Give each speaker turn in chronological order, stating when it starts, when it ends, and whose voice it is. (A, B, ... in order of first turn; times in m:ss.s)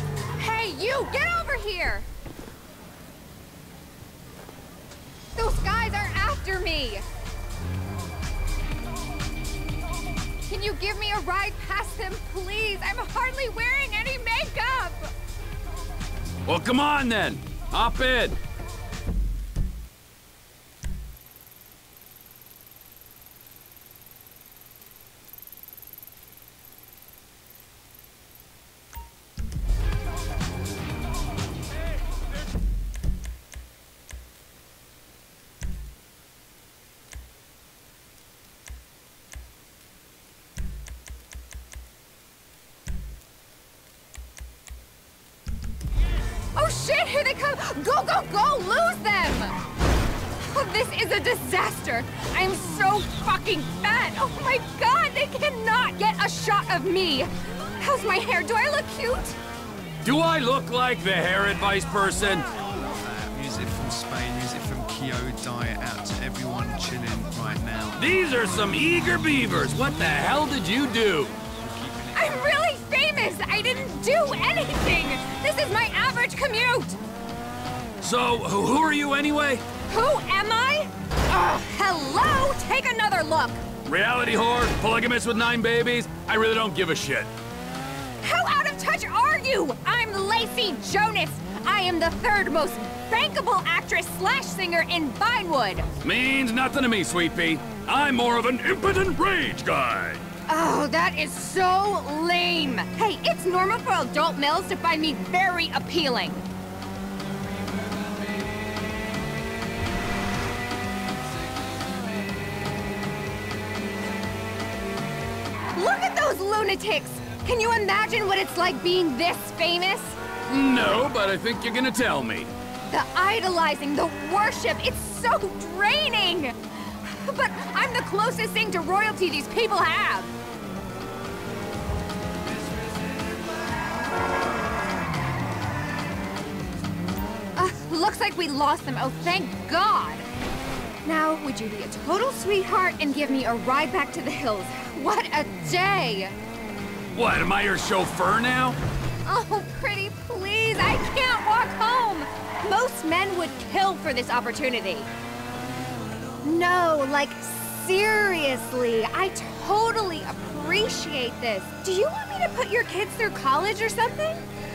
0:00.4-0:02.1 A
0:05.4-0:07.0 A
0:10.5-0:15.1 A
0:16.5-0:18.4 B
0:46.6-0:49.6 A
0:50.4-0:59.4 A
1:00.0-1:02.5 B
1:02.6-1:08.1 C
1:08.0-1:11.4 B
1:11.6-1:12.4 C
1:12.1-1:17.0 A
1:18.0-1:19.6 B
1:19.9-1:23.6 A
1:23.8-1:27.3 B
1:28.2-1:35.9 A
1:36.0-1:40.2 B
1:40.5-1:46.5 A
1:55.7-2:00.2 A
2:00.5-2:02.5 B
2:02.9-2:10.3 A
2:17.6-2:20.3 A
2:21.0-2:26.3 A
2:27.1-2:28.8 B
2:29.2-2:35.1 A
2:36.4-2:44.4 A